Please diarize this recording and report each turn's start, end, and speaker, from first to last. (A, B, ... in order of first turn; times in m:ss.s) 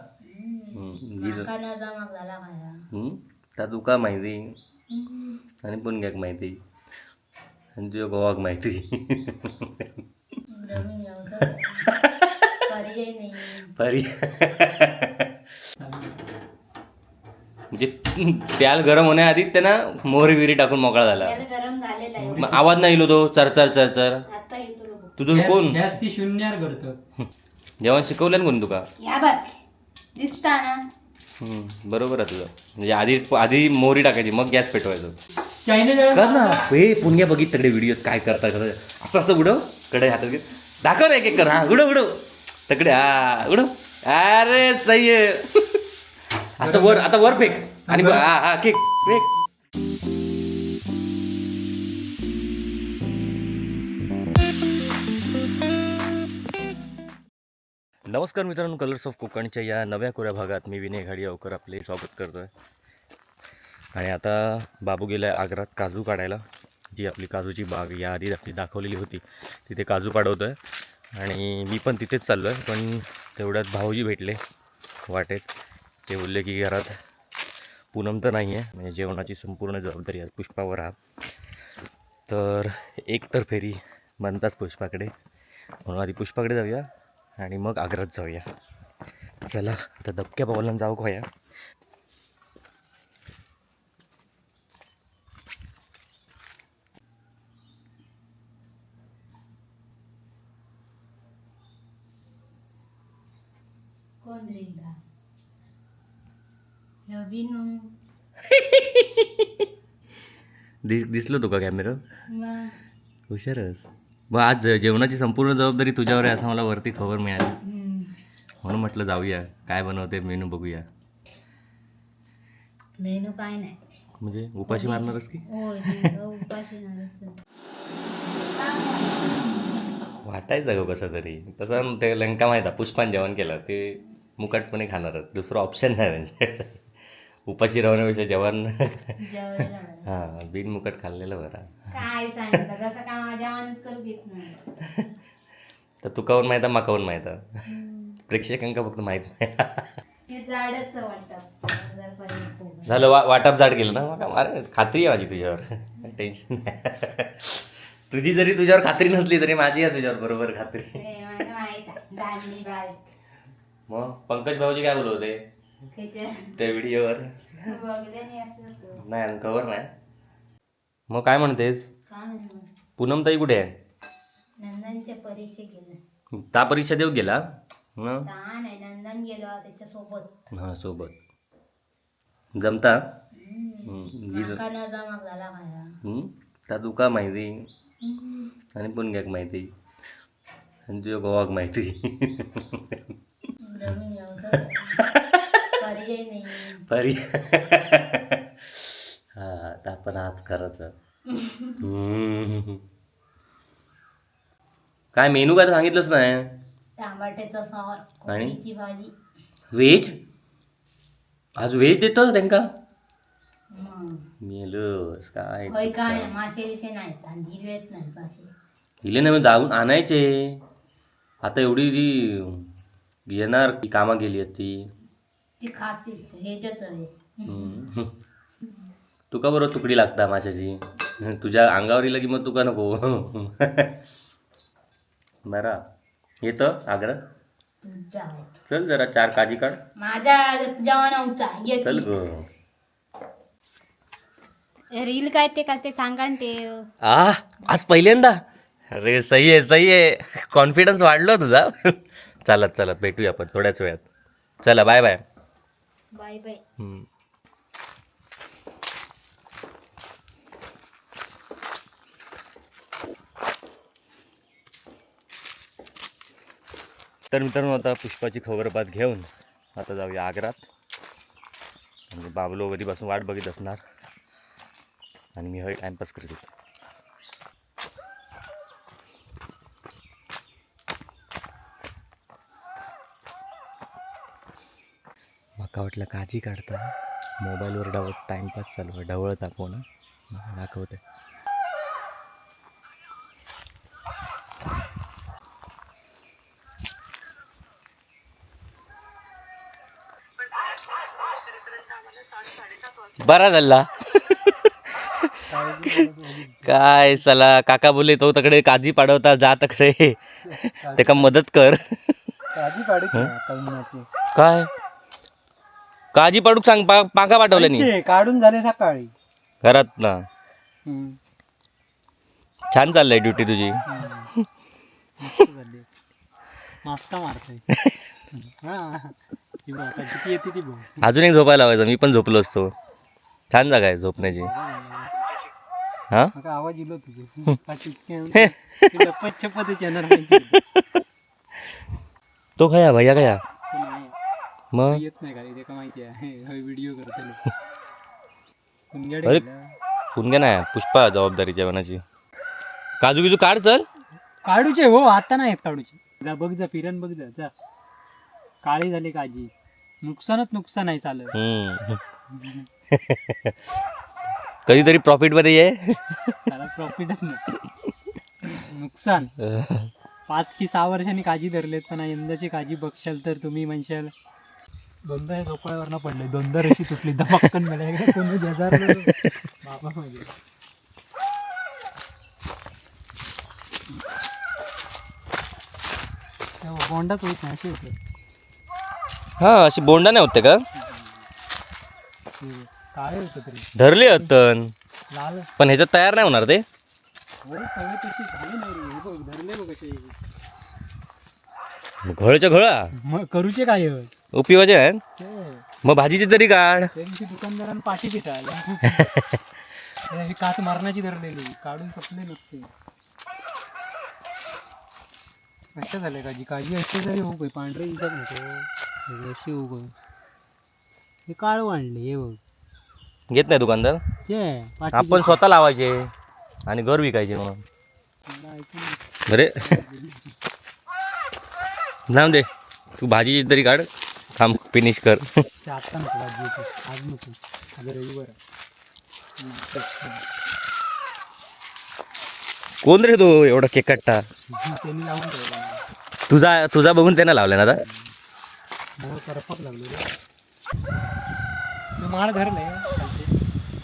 0:00.2-0:02.9 A
0:00.7-0:01.5 B
0:02.9-0:04.5 B
0:04.9-0:05.4 A
0:05.6-0:06.6 B
0:07.8-0:09.9 B
0:10.5-0:11.9 A
0:11.4-0:12.5 B
0:12.6-0:13.7 A
0:13.8-0:15.2 B
0:15.8-0:16.2 C
0:17.7-0:21.4 B
0:21.2-0:22.6 A
0:22.2-0:22.8 C
0:22.4-0:24.2 B
0:24.3-0:25.2 A
0:25.2-0:25.9 B
0:25.3-0:27.0 C
0:27.8-0:28.8 B
0:29.0-0:29.6 A
0:30.2-0:30.8 A
0:31.4-0:35.2 B
0:35.6-0:36.6 C
0:36.1-0:45.8 B
0:46.6-0:49.3 B
0:46.6-0:48.3 C
0:58.1-1:02.5 B
1:03.9-1:10.6 B
1:11.2-1:14.4 B
1:15.1-1:15.5 B
1:16.1-1:16.9 B
1:17.9-1:20.9 B
1:22.3-1:25.1 B
1:25.8-1:26.8 B
1:27.4-1:28.4 B
1:29.4-1:31.2 B
1:44.2-1:45.0 A
1:47.1-1:47.9 A
1:48.5-1:49.5 B
1:50.8-1:52.0 B
1:52.3-1:52.7 A
1:53.3-1:57.6 B
1:57.6-1:58.1 A
1:58.6-2:00.8 B
2:03.0-2:03.8 A
2:04.2-2:06.1 B
2:04.7-2:07.4 A
2:08.3-2:09.6 A
2:10.2-2:16.8 B
2:17.5-2:19.1 B
2:19.2-2:20.1 A
2:20.0-2:21.8 B
2:21.9-2:24.7 A
2:24.8-2:25.0 B
2:26.0-2:27.4 B
2:27.7-2:28.2 A
2:28.3-2:30.0 B
2:30.3-2:33.1 A
2:32.8-2:41.0 B
2:40.9-2:43.0 A
2:43.9-2:45.4 B
2:45.9-2:46.5 A
2:46.6-2:47.6 B
2:47.6-2:49.0 A
2:49.0-2:49.9 B
2:51.1-2:51.9 B
2:52.1-2:52.7 A
2:53.0-2:53.7 B
2:54.6-2:56.0 A
2:56.3-2:57.4 B
2:58.0-2:58.3 B
2:58.2-3:00.3 A
3:00.5-3:01.1 B
3:02.6-3:03.0 B
3:03.3-3:06.0 A
3:03.8-3:04.6 B
3:06.0-3:07.6 B
3:08.0-3:08.5 A
3:08.8-3:09.7 B
3:10.9-3:13.0 B
3:13.6-3:15.0 A
3:14.5-3:15.7 B
3:15.8-3:16.8 A
3:16.9-3:20.9 B
3:21.3-3:21.8 A
3:21.8-3:22.8 B
3:25.1-3:26.5 B
3:27.0-3:29.1 A
3:28.3-3:28.6 B
3:29.7-3:30.1 B
3:31.6-3:32.6 B
3:33.7-3:34.2 A
3:34.4-3:36.3 B
3:35.7-3:38.5 A
3:39.0-3:40.6 B
3:41.4-3:42.6 B
3:43.3-3:44.8 B
3:45.6-3:47.8 A
3:47.4-3:48.1 B
3:49.3-3:53.9 B
3:55.4-3:55.8 B
3:56.4-3:57.2 B
3:57.8-3:58.5 A
3:58.7-3:59.8 B
4:00.0-4:02.1 A
4:01.8-4:02.4 B
4:04.9-4:06.9 A
4:07.0-4:08.4 B
4:08.9-4:14.1 B
4:14.6-4:15.2 B
4:16.1-4:16.6 A
4:16.8-4:17.0 B
4:27.3-4:30.6 B
4:32.1-4:33.8 B
4:35.4-4:36.5 B
4:45.6-4:51.0 B
5:03.2-5:05.4 B
5:05.5-5:07.2 C
5:06.6-5:11.8 B
5:10.4-5:11.3 C
5:12.5-5:14.1 C
5:14.3-5:14.7 B
5:16.1-5:17.9 B
5:17.5-5:19.1 C
5:19.6-5:20.2 B
5:20.8-5:21.2 C
5:22.7-5:23.8 B
5:23.9-5:24.3 C
5:25.2-5:25.9 C
5:26.8-5:27.6 C
5:28.3-5:31.0 C
5:31.0-5:32.7 B
5:33.5-5:34.5 B
5:34.2-5:35.3 C
5:36.3-5:40.6 C
5:40.5-5:40.8 B
5:42.6-5:43.4 B
5:43.7-5:44.2 C
5:44.7-5:45.0 B
5:44.8-5:47.4 C
5:48.9-5:49.7 C
5:50.1-5:52.0 B
5:53.0-5:53.8 B
5:54.4-5:57.5 C
5:58.6-6:01.3 C
6:01.3-6:02.0 B
6:02.3-6:02.7 C
6:02.9-6:03.6 B
6:04.6-6:06.3 B
6:06.4-6:07.4 C
6:08.4-6:09.3 C
6:09.4-6:09.9 B
6:10.3-6:14.1 C
6:15.0-6:20.3 C
6:18.8-6:19.4 B
6:26.6-6:28.0 C
6:29.4-6:30.6 B
6:30.8-6:31.2 C
6:32.4-6:33.7 C
6:33.8-6:34.7 B
6:35.1-6:35.5 C
6:35.6-6:36.6 B
6:37.4-6:40.2 C
6:42.0-6:42.9 B
6:42.9-6:44.1 C
6:44.3-6:45.0 B
6:45.2-6:45.6 C
6:45.8-6:46.9 B
6:46.9-6:49.1 C
6:48.9-6:49.4 B
6:50.1-6:52.7 C
6:55.7-6:59.9 C
7:01.3-7:02.4 C
7:03.3-7:04.0 B
7:04.2-7:05.4 C
7:04.9-7:06.1 B
7:06.7-7:07.6 B
7:08.3-7:10.3 C
7:09.3-7:09.6 B
7:12.1-7:12.5 B
7:13.0-7:15.3 B
7:15.6-7:18.4 C
7:19.4-7:20.2 C
7:22.8-7:24.2 B
7:24.5-7:25.8 C
7:26.3-7:27.8 B
7:29.0-7:30.0 C
7:32.0-7:33.4 C